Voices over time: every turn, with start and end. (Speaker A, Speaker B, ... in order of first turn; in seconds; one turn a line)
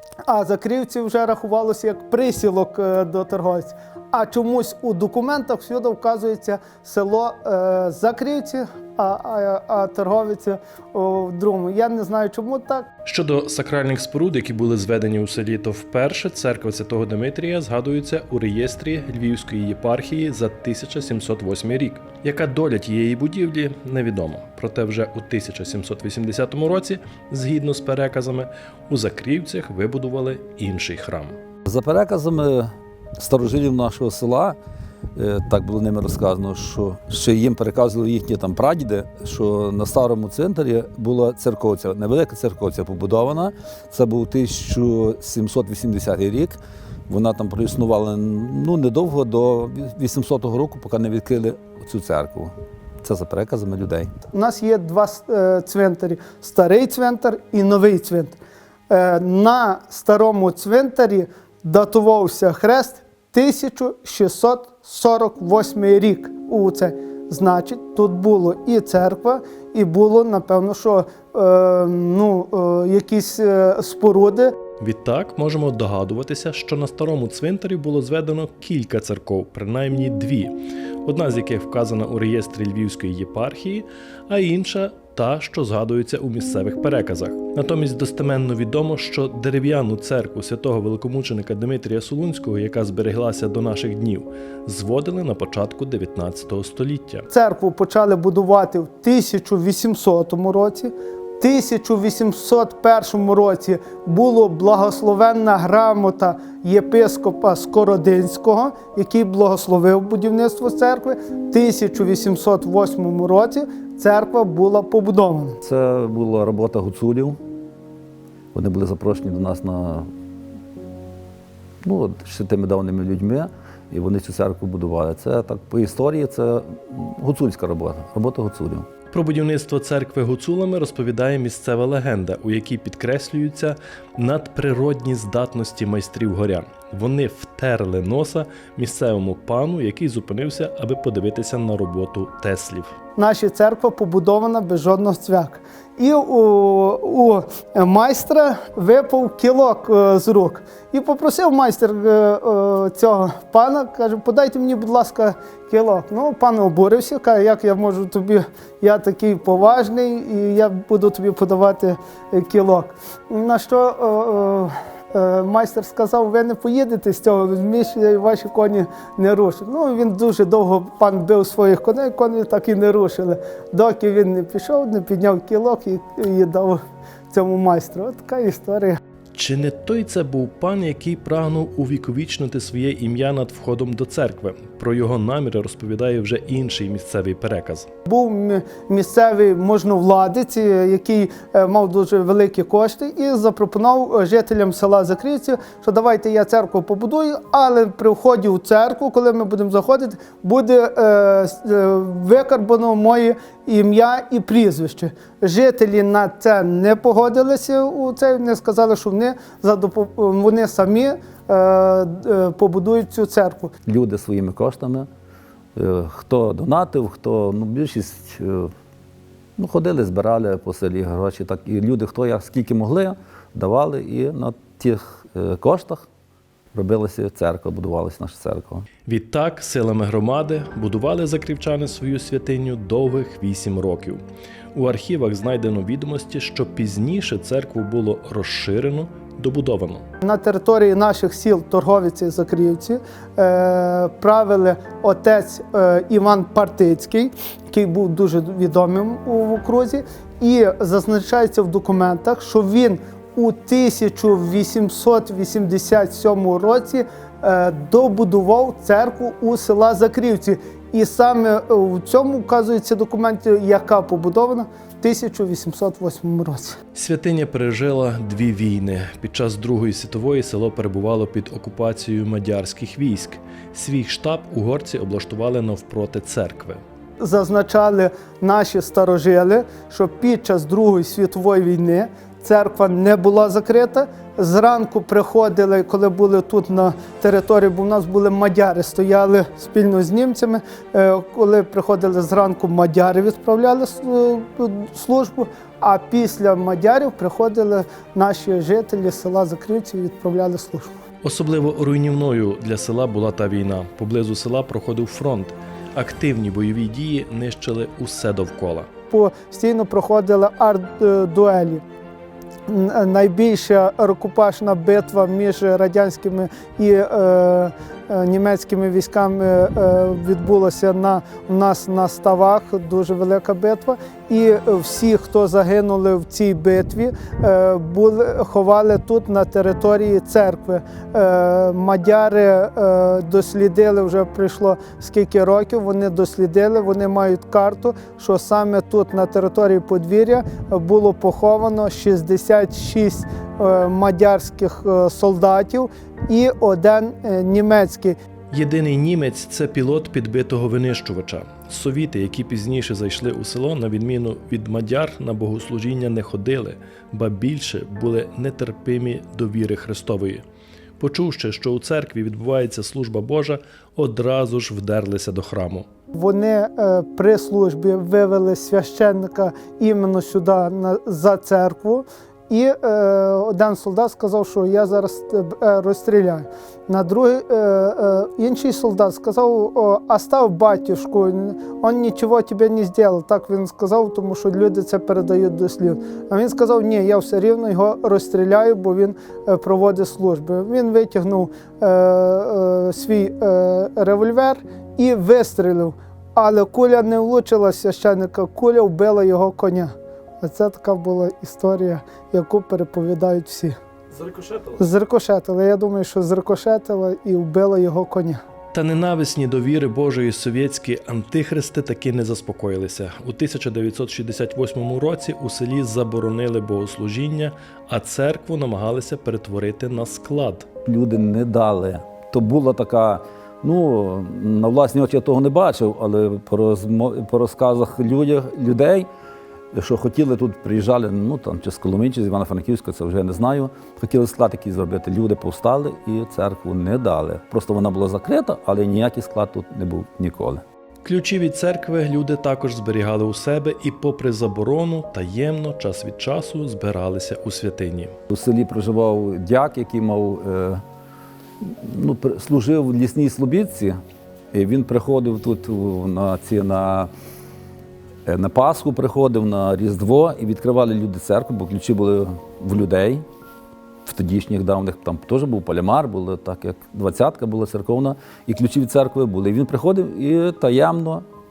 Speaker A: 0.2-12.9
Speaker B: 13.0-31.4
Speaker C: 31.6-34.6
Speaker C: 35.1-46.6
Speaker C: 47.1-54.1
Speaker A: 54.3-58.4
Speaker A: 58.9-74.5
Speaker B: 74.8-97.2
Speaker A: 97.3-115.6
Speaker C: 115.6-117.4
Speaker C: 118.5-120.1
Speaker C: 121.8-128.9
Speaker B: 129.1-142.9
Speaker A: 143.2-179.0
Speaker B: 179.3-187.9
Speaker A: 188.1-213.7
Speaker C: 213.8-215.1
Speaker C: 215.8-218.7
Speaker C: 219.6-226.1
Speaker C: 226.7-228.8
Speaker B: 229.1-234.2
Speaker B: 234.7-240.0
Speaker A: 240.2-266.8
Speaker B: 266.9-276.8
Speaker A: 277.2-300.9
Speaker B: 301.2-308.9
Speaker A: 309.1-311.8
Speaker A: 312.7-348.2
Speaker B: 348.5-360.4
Speaker B: 361.0-365.9
Speaker A: 366.1-403.8
Speaker B: 404.1-404.8
Speaker A: 404.8-408.4
Speaker B: 408.7-420.6
Speaker C: 420.8-429.1
Speaker C: 429.7-440.6
Speaker B: 441.0-448.1
Speaker C: 448.3-450.8
Speaker C: 451.6-454.0
Speaker C: 454.5-457.1
Speaker C: 458.2-463.2
Speaker C: 464.1-471.2